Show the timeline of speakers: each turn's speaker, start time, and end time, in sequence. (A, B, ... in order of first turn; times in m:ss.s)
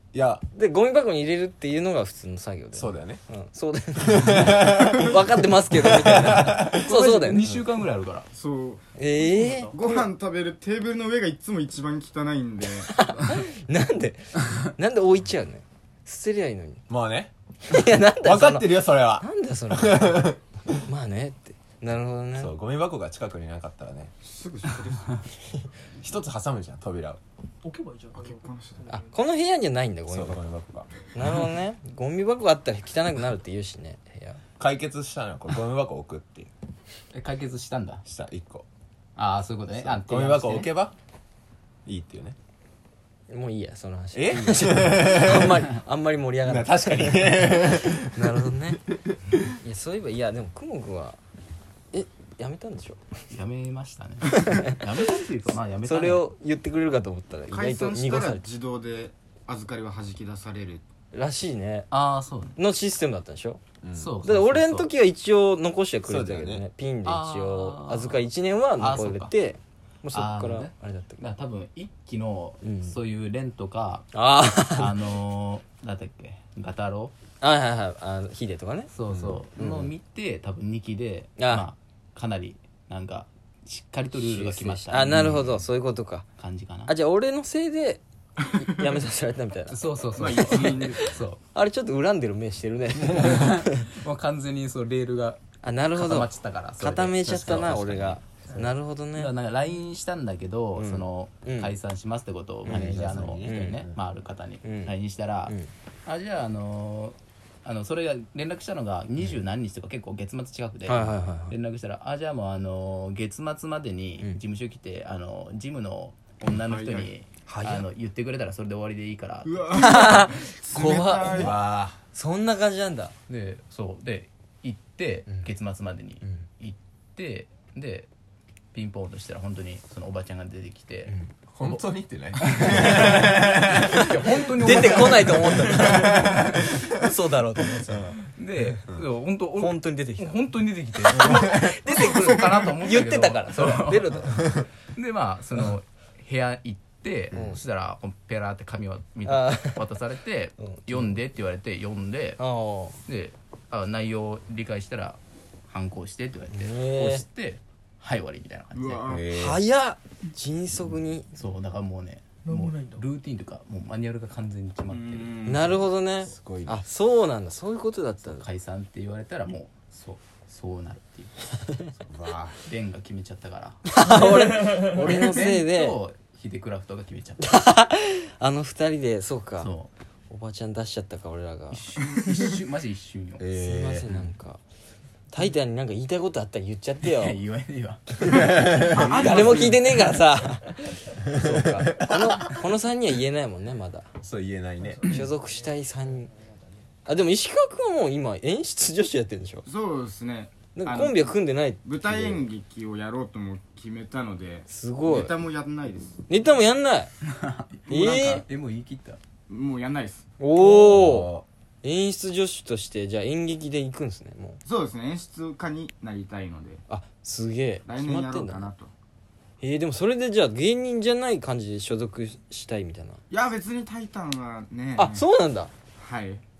0:00.1-0:00.4 A
0:00.5-0:07.5 B
0:02.7-0:03.2 A
0:04.0-0:06.8 A
0:06.5-0:08.3 C
0:08.3-0:08.8 D
0:09.0-0:09.8 B
0:09.2-0:09.7 E
0:09.7-0:13.0 D
0:12.8-0:16.8 B
0:16.9-0:20.4 A
0:17.7-0:22.5 B
0:22.4-0:24.1 A
0:24.2-0:25.2 D
0:26.0-0:27.2 A
0:27.6-0:29.1 E
0:28.1-0:28.8 D
0:28.9-0:30.4 B
0:30.1-0:30.9 A
0:31.1-0:34.4 B
0:34.6-0:36.5 A
0:37.1-0:38.0 C
0:38.0-0:38.6 A
0:39.2-0:40.7 C
0:39.8-0:40.9 A
0:41.8-0:42.4 A
0:43.3-0:48.8 B
0:44.1-0:45.6 A
0:46.4-0:49.3 A
0:49.6-0:51.2 B
0:51.9-0:53.0 B
0:53.3-0:56.3 C
0:54.3-0:54.8 B
0:55.8-0:58.4 B
0:57.5-1:00.8 D
1:01.1-1:01.9 B
1:01.9-1:02.6 C
1:02.6-1:03.6 B
1:03.8-1:04.1 A
1:03.9-1:04.9 C
1:04.2-1:11.2 B
1:06.0-1:06.6 A
1:07.0-1:08.2 C
1:08.8-1:09.3 C
1:10.1-1:14.1 C
1:12.6-1:12.9 B
1:14.1-1:14.9 B
1:14.7-1:17.1 C
1:17.4-1:18.9 B
1:18.9-1:25.4 C
1:19.6-1:19.9 B
1:21.4-1:21.7 B
1:24.2-1:26.2 B
1:25.1-1:25.6 A
1:26.4-1:26.9 C
1:26.9-1:31.0 B
1:29.7-1:31.4 C
1:30.2-1:31.2 D
1:31.5-1:33.9 B
1:33.1-1:35.4 C
1:35.6-1:39.4 B
1:35.9-2:00.1 C
1:40.7-1:41.7 B
1:42.6-1:43.9 A
1:42.7-1:43.8 B
1:44.6-1:44.9 B
1:50.8-1:51.5 B
1:56.6-1:57.1 D
1:57.5-1:57.8 B
1:59.4-2:01.6 D
1:59.8-2:01.5 B
2:01.3-2:02.0 A
2:02.1-2:03.1 B
2:03.3-2:08.1 C
2:08.7-2:11.8 C
2:11.5-2:14.1 A
2:12.4-2:16.7 C
2:12.7-2:13.1 B
2:13.8-2:18.2 B
2:15.3-2:16.3 A
2:18.3-2:24.4 C
2:19.6-2:20.4 B
2:21.0-2:24.5 B
2:21.2-2:21.7 A
2:24.9-2:32.4 C
2:27.3-2:27.6 A
2:27.3-2:27.6 B
2:29.2-2:29.8 B
2:30.6-2:31.1 B
2:32.4-2:33.0 B
2:33.0-2:35.2 C
2:35.7-2:39.2 C
2:36.5-2:37.2 B
2:38.7-2:39.3 D
2:39.1-2:39.6 A
2:39.3-2:41.3 B
2:41.3-2:45.5 C
2:42.4-2:43.0 E
2:44.9-2:45.8 D
2:45.4-2:48.4 B
2:46.2-2:46.8 A
2:48.2-2:57.5 C
2:53.9-2:56.0 B
2:54.3-2:54.9 E
2:57.4-2:59.7 B
2:59.6-2:59.9 C
3:00.3-3:01.8 B
3:01.7-3:03.4 C
3:03.4-3:04.2 A
3:03.6-3:04.6 B
3:05.3-3:07.4 B
3:07.0-3:10.0 C
3:08.3-3:09.6 A
3:08.8-3:14.1 B
3:09.2-3:09.8 D
3:14.2-3:15.3 A
3:14.8-3:16.6 E
3:15.0-3:16.3 B
3:17.0-3:19.6 B
3:19.6-3:26.2 D
3:20.7-3:22.4 B
3:24.7-3:25.3 B
3:26.3-3:27.1 B
3:27.2-3:29.2 C
3:27.9-3:28.4 B
3:29.5-3:30.3 D
3:30.4-3:31.3 B
3:30.6-3:31.4 A
3:31.8-3:34.6 B
3:34.6-3:36.8 D
3:36.9-3:38.7 B
3:37.8-3:38.9 D
3:39.6-3:43.2 B
3:43.3-3:45.2 D
3:45.0-3:45.7 B
3:46.0-3:46.4 D